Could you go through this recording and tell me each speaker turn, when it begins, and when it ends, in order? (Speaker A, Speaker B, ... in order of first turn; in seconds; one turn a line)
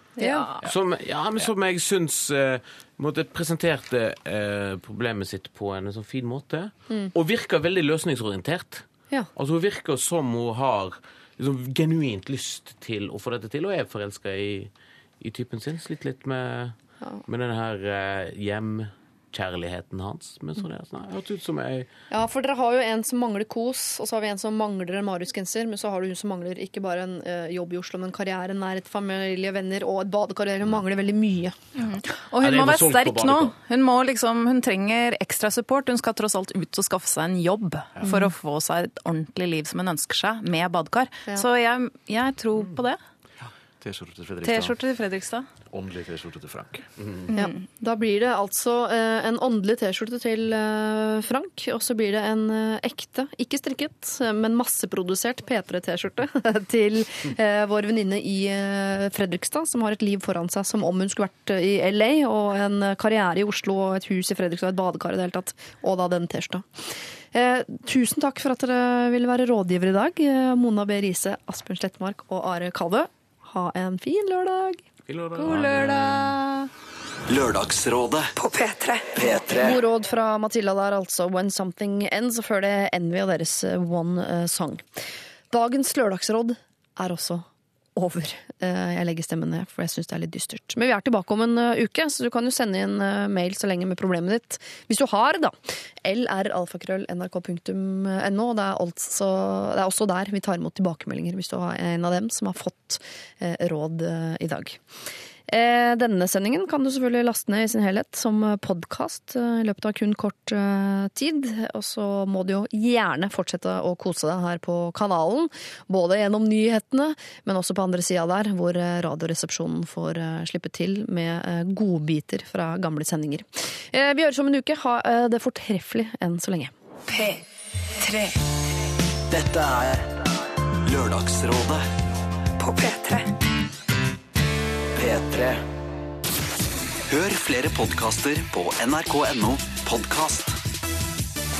Speaker A: 0.2-0.5
Speaker B: 0.2-0.7
Speaker C: 0.6-21.9
Speaker A: 22.1-31.6
Speaker B: 31.8-43.0
Speaker C: 32.4-33.5
Speaker A: 38.0-38.3
Speaker D: 43.4-44.8
Speaker B: 44.4-45.5
Speaker D: 45.7-46.9
Speaker C: 47.0-47.2
Speaker B: 47.3-47.6
Speaker A: 47.3-74.8
Speaker C: 75.1-76.3
Speaker A: 75.4-76.1
Speaker D: 75.5-75.7
Speaker B: 75.5-76.2
Speaker E: 77.3-78.3
Speaker F: 78.3-79.3
Speaker E: 79.1-79.8
Speaker A: 79.6-85.0
Speaker A: 85.5-104.8
Speaker A: 105.5-126.7
Speaker F: 127.1-127.4
Speaker F: 128.0-128.4
Speaker E: 129.3-130.2
Speaker E: 130.8-131.8
Speaker F: 132.6-133.3
Speaker E: 134.9-135.6
Speaker E: 137.1-140.5